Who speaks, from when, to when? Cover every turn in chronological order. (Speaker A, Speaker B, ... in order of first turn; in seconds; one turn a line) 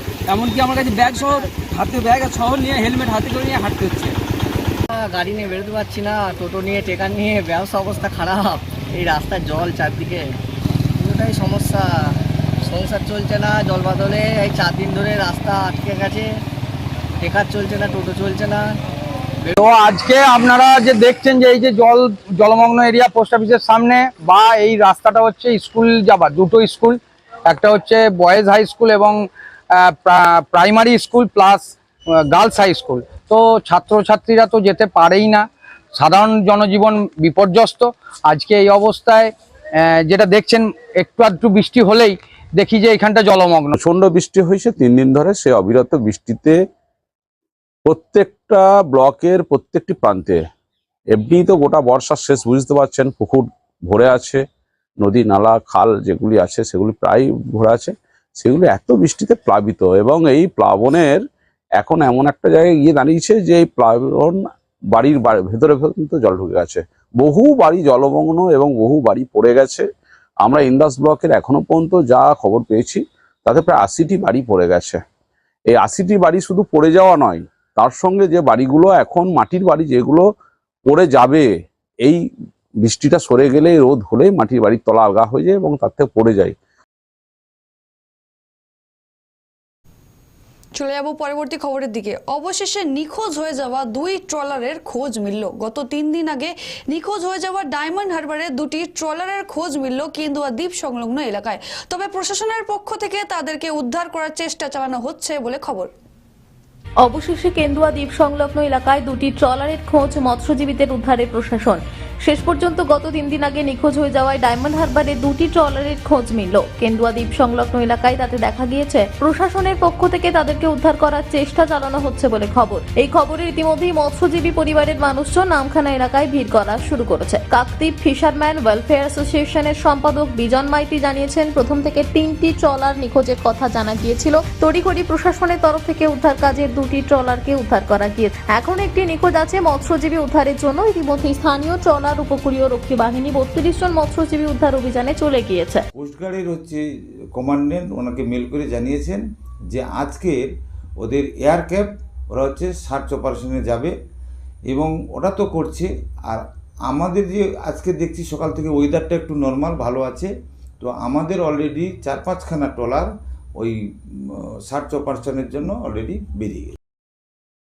Speaker A: 0.3-4.2
Speaker B: 5.1-10.2
Speaker B: 11.1-11.8
Speaker B: 12.7-16.3
Speaker B: 17.2-18.6
Speaker C: 19.5-31.7
Speaker C: 32.3-43.8
Speaker D: 43.7-46.6
Speaker D: 47.9-50.5
Speaker D: 51.1-54.5
Speaker D: 55.0-61.2
Speaker D: 61.8-64.4
Speaker D: 65.0-69.9
Speaker D: 70.4-75.0
Speaker D: 75.7-80.3
Speaker D: 80.9-81.5
Speaker D: 82.8-86.6
Speaker E: 90.8-105.9
Speaker F: 107.0-145.8
Speaker G: 146.0-146.8
Speaker G: 147.4-150.4
Speaker G: 151.0-153.9
Speaker G: 154.7-163.7
Speaker G: 164.7-166.8